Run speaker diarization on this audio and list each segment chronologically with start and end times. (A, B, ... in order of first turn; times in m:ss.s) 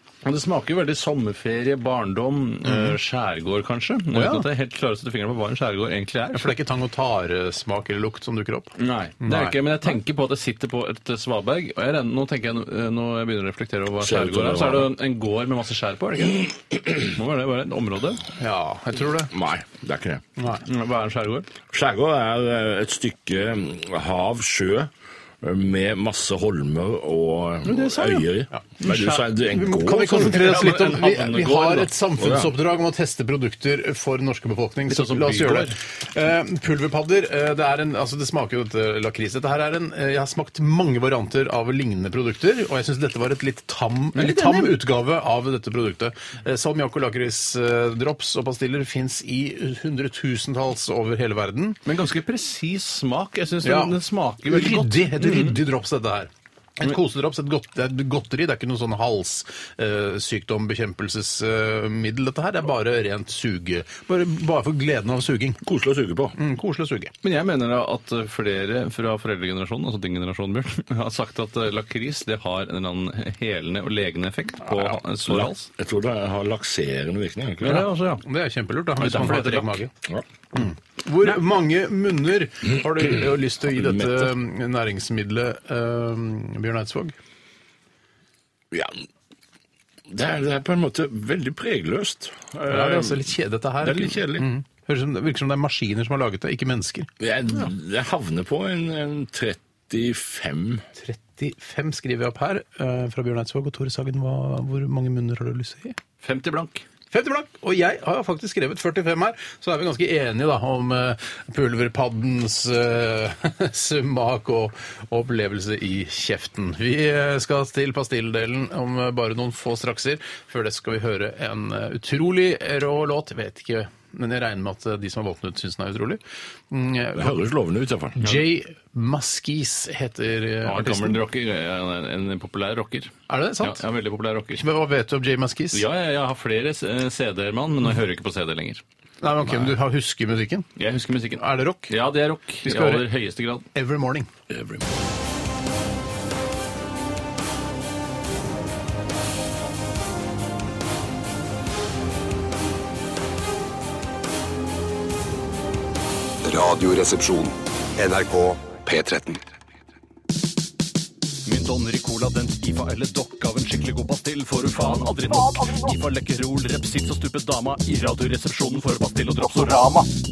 0:00.2-0:06.5 A
0:02.6-0:03.0 B
0:04.1-0:04.5 B
0:06.3-0:09.9 B
0:08.8-0:18.2 A
0:14.0-0:14.9 C
0:18.4-0:19.3 B
0:19.3-0:20.2 C
0:20.4-0:20.6 B
0:20.6-0:21.5 A
0:21.7-0:30.5 C
0:27.6-0:28.3 A
0:28.5-0:51.8 B
0:28.8-0:29.2 A
0:30.2-0:31.9 A
0:32.2-0:32.5 C
0:34.9-0:35.7 A
0:44.1-0:44.7 A
0:51.8-0:55.6 A
0:53.6-1:05.6 B
1:05.6-1:06.4 C
1:06.4-1:07.1 B
1:07.2-1:15.7 A
1:15.3-1:17.8 C
1:17.6-1:18.2 A
1:17.6-1:19.9 B
1:19.0-1:19.8 A
1:20.5-1:27.2 B
1:23.7-1:24.3 C
1:28.7-1:29.0 C
1:30.1-1:33.3 C
1:32.7-1:37.1 B
1:33.8-1:34.5 C
1:37.2-1:40.8 C
1:41.0-1:46.0 B
1:46.2-1:46.8 A
1:47.1-2:07.4 B
2:07.1-2:08.2 C
2:08.2-2:11.2 B
2:10.6-2:14.6 A
2:13.3-2:13.8 B
2:14.6-2:15.8 B
2:15.7-2:18.8 A
2:19.2-2:20.7 B
2:20.8-2:23.6 A
2:21.4-2:21.9 B
2:22.6-2:23.1 B
2:23.7-2:24.3 B
2:24.5-2:24.8 C
2:36.4-2:39.4 D
2:41.4-2:50.1 E